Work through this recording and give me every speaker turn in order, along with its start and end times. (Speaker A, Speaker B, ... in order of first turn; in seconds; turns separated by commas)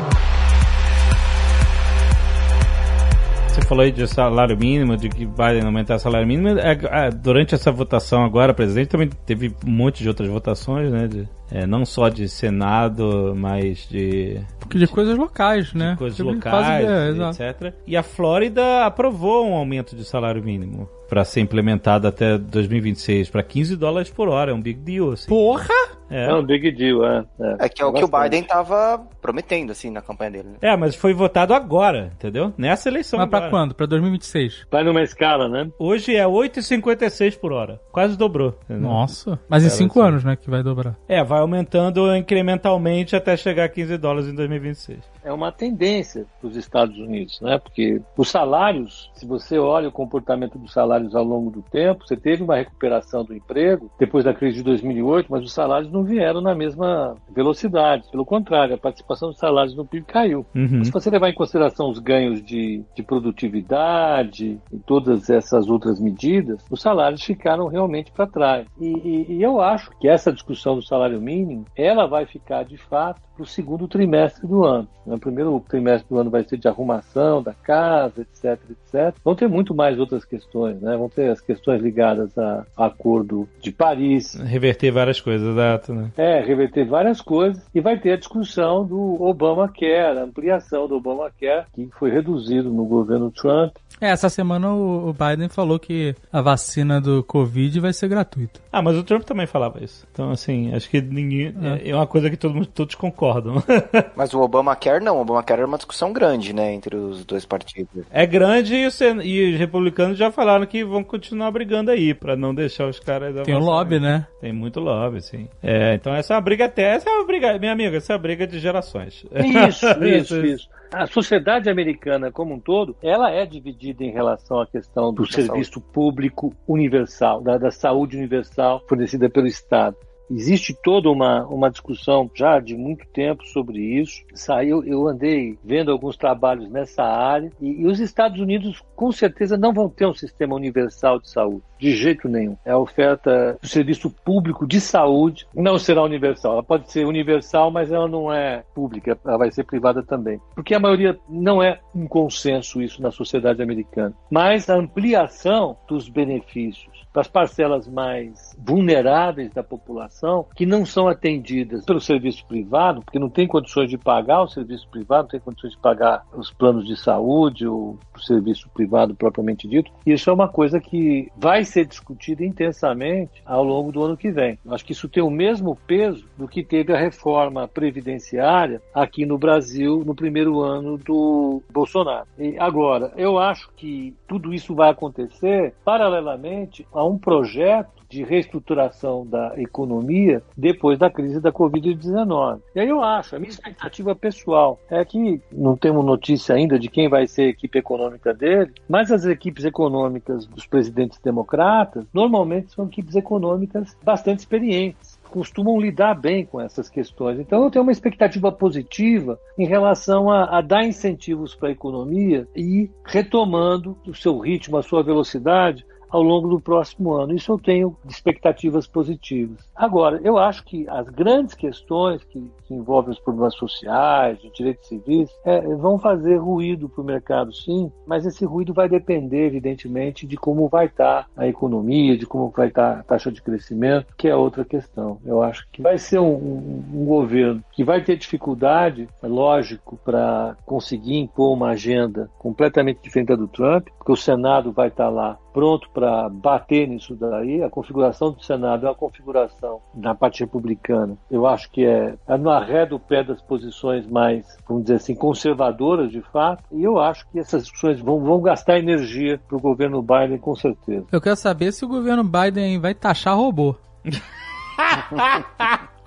Speaker A: 3.5-14.7, Speaker B: 14.6-17.4, Speaker A: 15.8-25.4, Speaker B: 25.3-25.9, Speaker A: 26.1-26.4, Speaker C: 26.2-28.4, Speaker D: 27.6-30.6, Speaker A: 30.6-33.6, Speaker B: 33.1-34.6, Speaker C: 34.7-35.7, Speaker A: 35.8-39.0, Speaker B: 38.8-40.9, Speaker A: 39.6-40.1, Speaker A: 41.1-45.0, Speaker C: 45.2-84.4, Speaker A: 60.5-60.9, Speaker A: 84.3-86.1, Speaker C: 86.2-93.8, Speaker B: 94.0-98.6, Speaker A: 98.7-104.1, Speaker D: 104.2-108.0, Speaker A: 108.1-120.5, Speaker B: 113.4-114.3, Speaker C: 119.4-261.1, Speaker A: 125.3-125.7, Speaker B: 261.1-263.8, Speaker A: 264.8-265.8